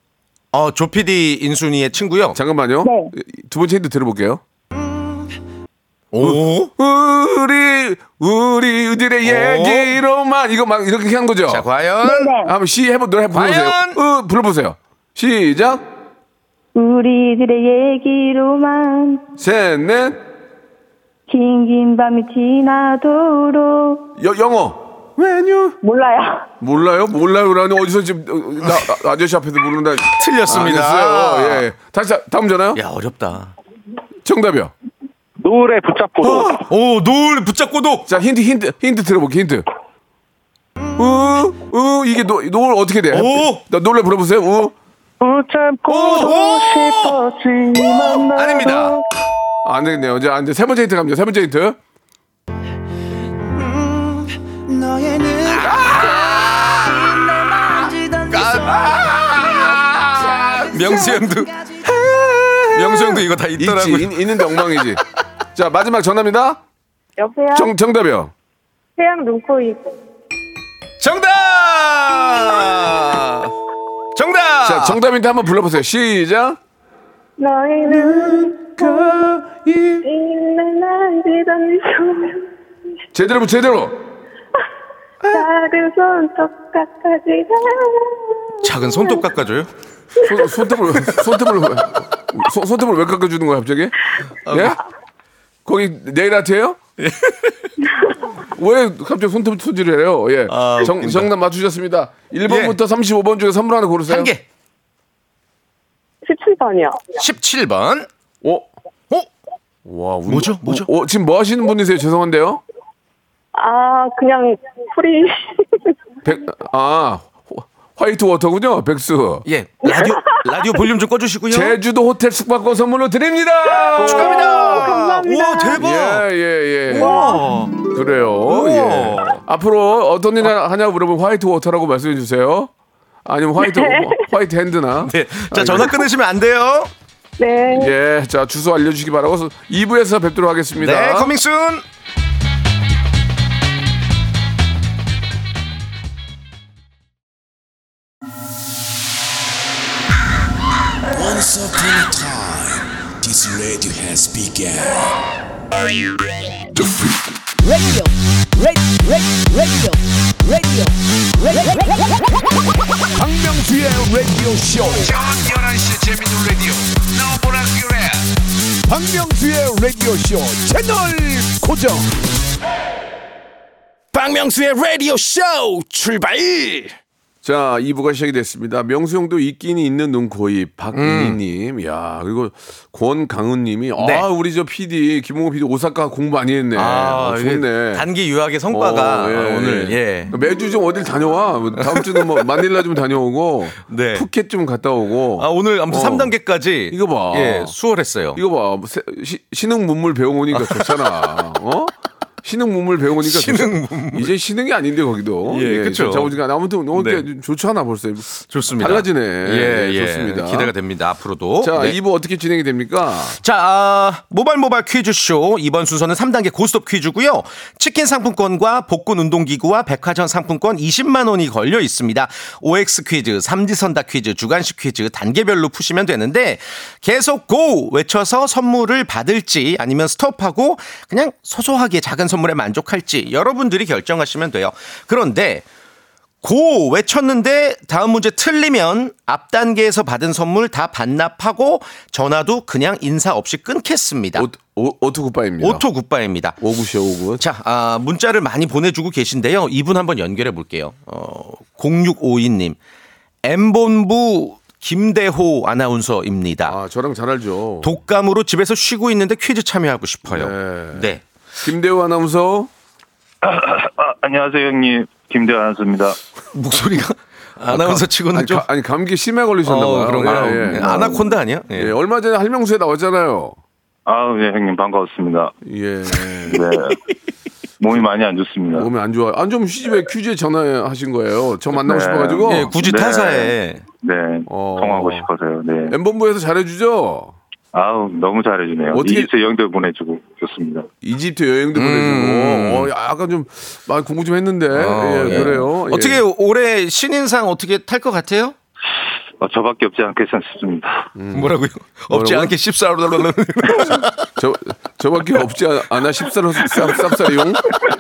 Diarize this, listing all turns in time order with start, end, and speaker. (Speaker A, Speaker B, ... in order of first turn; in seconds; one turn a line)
Speaker A: 0.5-2.4
Speaker B: 2.3-4.4
Speaker C: 2.8-3.1
Speaker A: 6.1-6.7
Speaker B: 6.2-11.7
Speaker A: 9.2-10.0
Speaker A: 11.5-12.3
Speaker C: 12.0-12.5
Speaker B: 12.4-15.8
Speaker A: 13.3-14.0
Speaker C: 16.7-19.2
Speaker B: 19.4-20.2
Speaker C: 21.3-24.1
Speaker B: 24.2-25.8
Speaker C: 25.8-26.5
Speaker B: 26.6-32.8
Speaker A: 30.1-31.6
Speaker A: 32.7-33.5
Speaker B: 34.2-34.7
Speaker D: 35.4-36.6
Speaker B: 36.2-36.6
Speaker A: 36.6-38.1
Speaker B: 38.1-39.6
Speaker B: 41.0-44.7
Speaker A: 43.1-43.6
Speaker D: 45.2-49.0
Speaker A: 45.9-47.2
Speaker B: 45.9-46.2
Speaker A: 47.8-49.0
Speaker B: 49.6-51.8
Speaker E: 54.7-58.9
Speaker A: 55.6-56.9
Speaker B: 55.6-56.8
Speaker A: 58.3-59.8
Speaker B: 58.6-61.0
Speaker A: 60.6-61.5
Speaker E: 60.9-61.2
Speaker B: 61.8-65.0
Speaker A: 62.7-64.8
Speaker B: 65.5-66.6
Speaker C: 67.2-67.7
Speaker B: 67.5-68.3
Speaker C: 69.0-69.9
Speaker A: 71.0-73.5
Speaker A: 74.1-75.0
Speaker B: 74.6-76.6
Speaker C: 77.4-79.2
Speaker B: 77.9-80.0
Speaker C: 80.0-82.5
Speaker B: 83.1-84.0
Speaker C: 85.3-89.2
Speaker A: 88.6-89.7
Speaker B: 90.2-94.0
Speaker A: 94.4-94.8
Speaker B: 94.5-94.8
Speaker B: 95.6-96.8
Speaker A: 97.0-97.7
Speaker B: 98.4-104.3
Speaker A: 100.5-101.3
Speaker A: 102.5-102.8
Speaker A: 104.1-104.4
Speaker C: 106.2-107.0
Speaker A: 107.2-108.1
Speaker B: 108.4-108.7
Speaker B: 109.8-112.6
Speaker A: 110.3-110.9
Speaker C: 113.5-115.6
Speaker B: 116.2-119.4
Speaker A: 119.5-121.8
Speaker B: 121.5-124.6
Speaker A: 124.0-126.3
Speaker C: 124.4-125.8
Speaker B: 125.8-127.3
Speaker A: 126.9-127.8
Speaker C: 127.0-127.4
Speaker B: 127.9-132.7
Speaker A: 128.5-129.4
Speaker B: 133.2-136.0
Speaker C: 133.7-134.2
Speaker A: 135.0-136.9
Speaker C: 137.4-137.9
Speaker B: 137.7-141.3
Speaker A: 140.8-141.8
Speaker E: 151.1-155.1
Speaker E: 157.6-162.2
Speaker E: 163.2-168.2
Speaker E: 168.9-172.0
Speaker E: 174.1-176.9
Speaker B: 177.4-188.1
Speaker A: 180.9-181.4
Speaker A: 184.0-184.2
Speaker A: 186.7-190.3
Speaker B: 188.7-196.3
Speaker A: 191.8-192.5
Speaker A: 193.8-194.3
Speaker A: 195.4-198.4
Speaker B: 196.9-197.7
Speaker B: 198.3-210.7
Speaker A: 200.5-201.4
Speaker A: 203.2-204.3
Speaker A: 205.5-206.3
Speaker A: 206.9-207.2
Speaker A: 208.4-212.0
Speaker B: 211.6-213.4
Speaker A: 213.4-235.6
Speaker A: 236.4-244.5
Speaker B: 244.3-245.8
Speaker A: 245.6-246.6
Speaker B: 246.6-247.4
Speaker A: 247.4-252.8
Speaker A: 253.4-256.8
Speaker B: 256.6-257.9
Speaker A: 257.8-261.2
Speaker B: 260.3-261.1
Speaker B: 261.6-262.7
Speaker F: 263.4-266.2
Speaker A: 266.5-268.6
Speaker B: 267.7-273.6
Speaker A: 269.6-271.9
Speaker F: 274.1-275.5
Speaker B: 275.6-276.6
Speaker F: 276.5-277.0
Speaker F: 277.8-278.9
Speaker B: 278.7-282.7
Speaker F: 281.8-285.9
Speaker A: 282.5-283.8
Speaker B: 284.5-285.3
Speaker B: 285.9-287.4
Speaker F: 287.7-290.9
Speaker B: 288.9-289.3
Speaker B: 291.0-296.2
Speaker A: 291.7-292.9
Speaker A: 294.7-298.6
Speaker F: 299.4-301.1
Speaker B: 301.1-301.6
Speaker A: 301.3-304.2
Speaker B: 302.1-302.5
Speaker B: 303.8-307.7